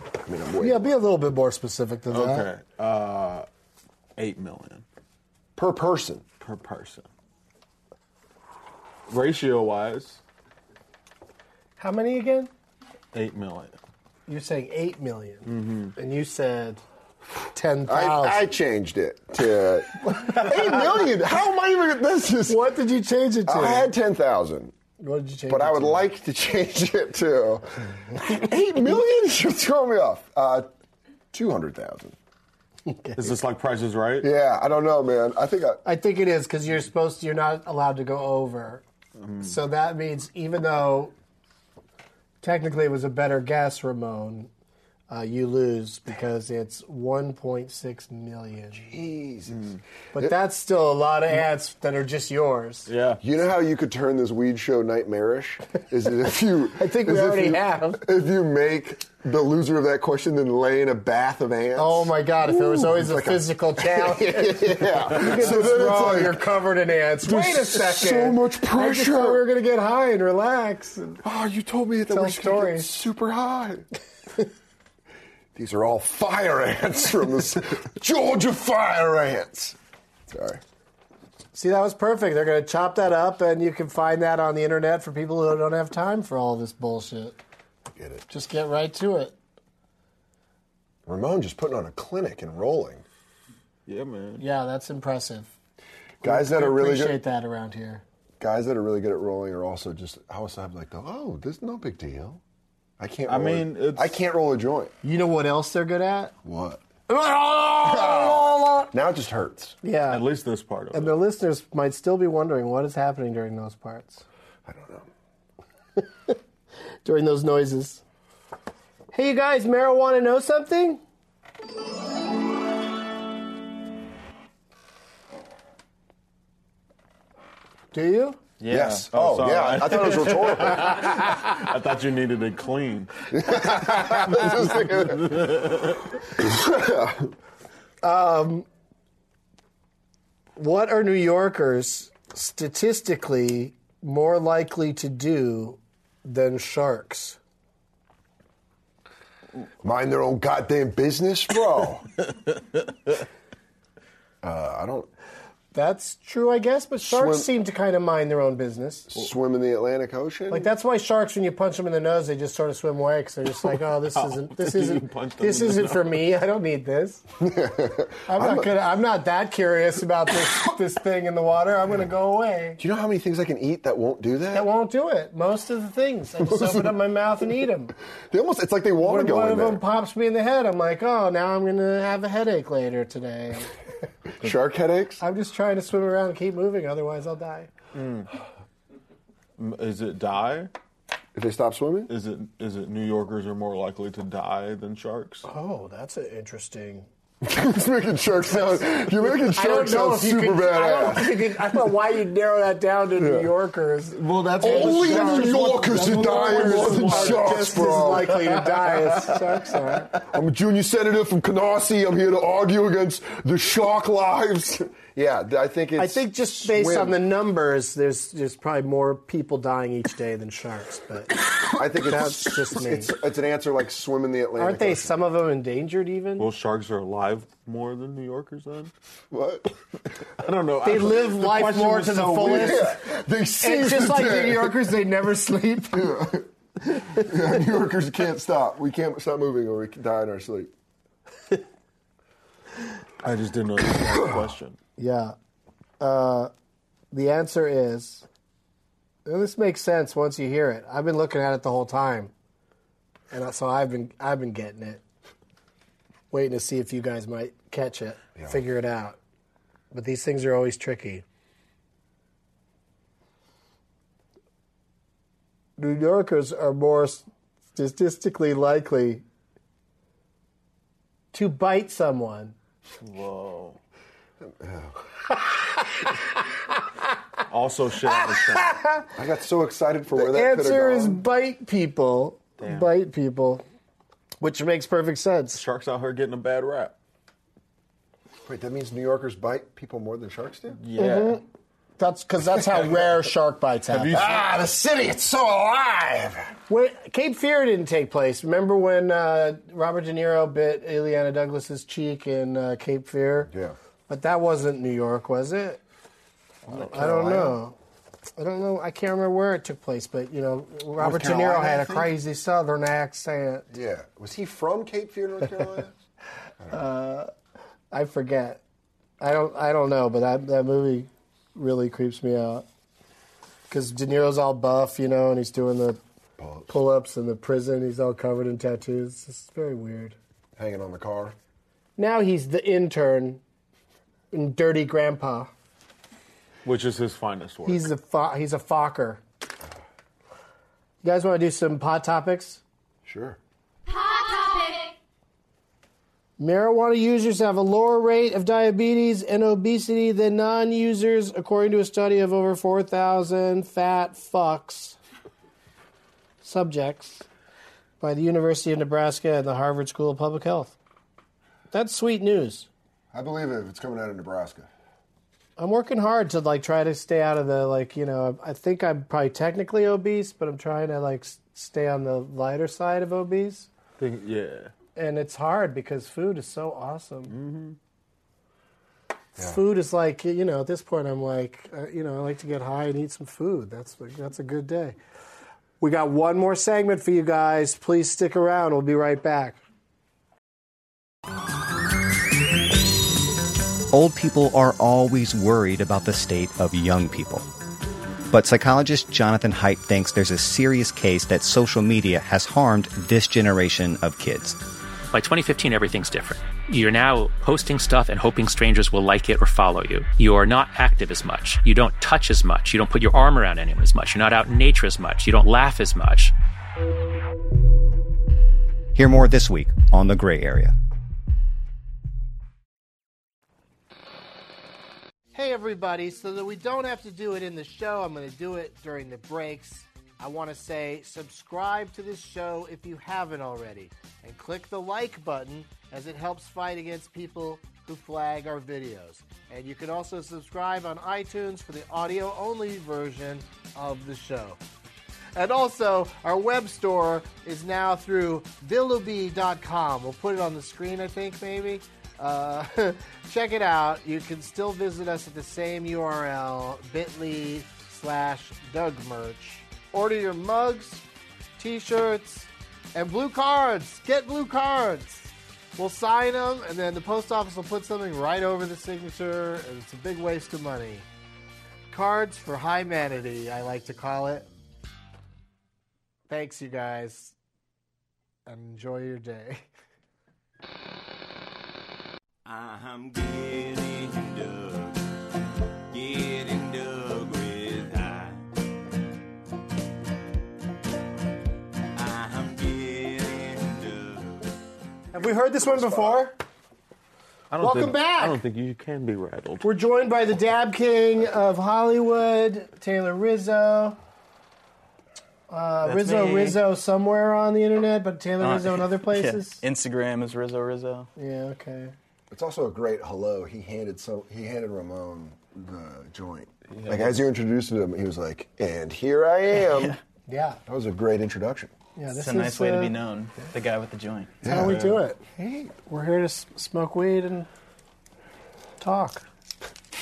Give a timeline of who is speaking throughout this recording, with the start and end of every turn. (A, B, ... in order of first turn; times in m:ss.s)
0:00.2-0:00.9 A
0:00.6-0:02.5 B
0:02.1-0:03.5 C
0:04.2-0:04.8 C
0:05.6-0:06.2 A
0:06.4-0:07.1 C
0:09.1-0:10.2 C
0:11.8-0:12.5 B
0:13.1-0:13.8 C
0:14.3-0:16.8 B
0:15.5-0:15.9 C
0:17.5-0:18.5 B
0:17.9-0:22.6 A
0:22.5-0:23.9 B
0:23.5-0:24.7 A
0:25.0-0:26.0 B
0:25.5-0:30.7 A
0:31.3-0:32.2 A
0:32.9-0:33.4 B
0:33.2-0:34.3 C
0:34.2-0:35.8 A
0:35.8-0:38.8 B
0:39.2-0:39.5 C
0:39.4-0:41.1 B
0:42.4-0:44.5 B
0:45.1-0:48.8 B
0:48.7-0:50.4 A
0:49.5-0:49.8 C
0:50.1-0:52.9 B
0:52.9-0:53.2 C
0:53.2-1:06.5 A
0:56.8-0:58.0 B
1:01.8-1:11.2 B
1:07.2-1:09.5 A
1:11.2-1:13.9 A
1:12.1-1:12.9 B
1:15.5-1:19.8 A
1:20.3-1:20.6 A
1:21.5-1:27.4 B
1:27.9-1:28.3 A
1:28.3-1:29.4 B
1:31.1-1:33.0 A
1:33.9-1:34.4 C
1:34.4-1:35.5 B
1:36.2-1:37.2 A
1:36.2-1:38.0 B
1:38.4-1:42.4 A
1:43.0-1:44.9 A
1:43.3-1:44.2 C
1:45.0-1:46.3 B
1:46.4-1:46.8 A
1:47.1-1:48.9 B
1:47.8-1:49.8 A
1:49.8-1:50.2 B
1:50.1-1:51.1 C
1:50.9-1:54.2 B
1:54.6-1:55.1 A
1:57.0-1:58.0 B
1:59.1-2:01.0 B
2:07.9-2:08.4 B
2:08.6-2:13.3 C
2:08.7-2:11.2 A
2:13.3-2:17.3 A
2:14.5-2:16.0 C
2:18.0-2:18.7 B
2:20.6-2:27.4 B
2:29.8-2:32.1 A
2:34.4-2:35.1 A
2:35.7-2:39.1 B
2:37.0-2:37.5 A
2:39.1-2:40.7 A
2:40.5-2:47.2 B
2:44.2-2:46.2 C
2:47.4-2:48.8 A
2:48.3-2:52.8 B
2:52.8-2:54.7 A
2:54.5-2:57.9 B
2:56.4-2:57.0 A
2:58.3-2:59.8 A
2:59.0-3:03.7 B
3:04.4-3:05.2 A
3:05.2-3:07.7 B
3:07.9-3:08.3 C
3:09.6-3:10.7 C
3:11.4-3:12.1 A
3:12.1-3:15.4 C
3:15.4-3:17.1 B
3:17.4-3:21.6 A
3:19.5-3:30.1 B
3:23.2-3:23.5 A
3:24.2-3:29.4 C
3:24.6-3:28.5 A
3:30.2-3:37.2 A
3:36.0-3:41.4 B
3:41.6-3:45.1 A
3:42.0-3:43.1 B
3:44.6-3:46.5 B
3:46.4-3:48.9 C
3:49.3-3:49.8 A
3:50.4-3:52.8 C
3:50.8-3:53.0 B
3:52.2-3:54.8 A
3:53.6-3:56.3 B
3:55.9-3:56.5 A
3:57.0-4:00.7 A
4:03.2-4:04.8 C
4:04.1-4:04.4 A
4:05.0-4:05.4 B
4:06.0-4:06.5 B
4:07.1-4:08.3 B
4:09.3-4:12.3 B
4:13.3-4:15.0 B
4:16.3-4:19.2 B
4:19.9-4:21.2 B
4:25.8-4:29.2 B
4:31.3-4:32.6 B
4:33.0-4:33.8 C
4:34.4-4:35.0 A
4:37.5-4:38.7 C
4:38.1-4:39.1 B
4:39.2-4:41.2 A
4:40.2-4:43.6 B
4:42.6-4:42.9 C
4:44.4-4:45.6 B
4:45.6-4:47.0 C
4:48.4-4:50.8 A
4:50.8-4:51.4 C
4:51.0-4:51.4 B
4:52.0-4:54.2 B
4:53.9-4:54.5 C
4:54.1-4:56.5 A
4:56.7-5:03.5 B
5:03.5-5:03.8 A
5:04.1-5:05.8 B
5:06.7-5:07.6 A
5:06.7-5:07.5 C
5:06.9-5:07.8 B
5:08.4-5:13.7 B
5:11.0-5:12.1 A
5:13.7-5:15.9 A
5:16.7-5:17.3 B
5:17.9-5:18.6 B
5:19.2-5:22.6 B
5:23.7-5:26.0 B
5:26.4-5:26.7 A
5:26.7-5:30.2 B
5:30.6-5:31.4 A
5:32.0-5:33.4 B
5:34.3-5:35.5 B
5:36.6-5:37.9 C
5:37.7-5:39.2 B
5:41.0-5:42.6 B
5:43.0-5:43.4 A
5:46.4-5:55.0 B
5:56.4-5:57.3 B
5:58.0-6:00.8 B
6:01.7-6:02.7 B
6:03.1-6:04.7 A
6:05.6-6:13.7 B
6:14.0-6:14.7 C
6:15.0-6:17.4 B
6:17.3-6:17.8 C
6:19.4-6:25.0 B
6:25.8-6:29.6 B
6:33.9-6:37.5 D
6:38.3-6:44.6 D
6:45.1-6:56.3 E
6:59.0-7:00.8 D
7:05.4-7:24.6 B
7:25.4-7:41.0 B
7:41.6-7:51.1 B
7:51.9-7:54.5 B
7:56.3-7:57.4 B
7:58.5-7:59.6 B
8:02.5-8:05.0 F
8:05.9-8:08.4 F
8:12.0-8:14.5 F
8:15.1-8:16.4 B
8:15.2-8:16.3 A
8:17.5-8:19.7 C
8:17.6-8:18.4 B
8:19.6-8:24.0 B
8:25.5-8:29.6 B
8:25.9-8:26.6 G
8:28.4-8:31.1 G
8:31.2-8:31.9 B
8:32.3-8:40.0 A
8:36.7-8:37.2 C
8:40.3-8:40.6 B
8:40.7-8:41.7 A
8:42.0-8:43.0 B
8:42.2-8:44.3 G
8:44.4-8:44.8 A
8:44.5-8:45.2 B
8:44.5-8:45.0 C
8:45.3-8:45.8 A
8:45.8-8:47.5 B
8:48.8-8:49.2 B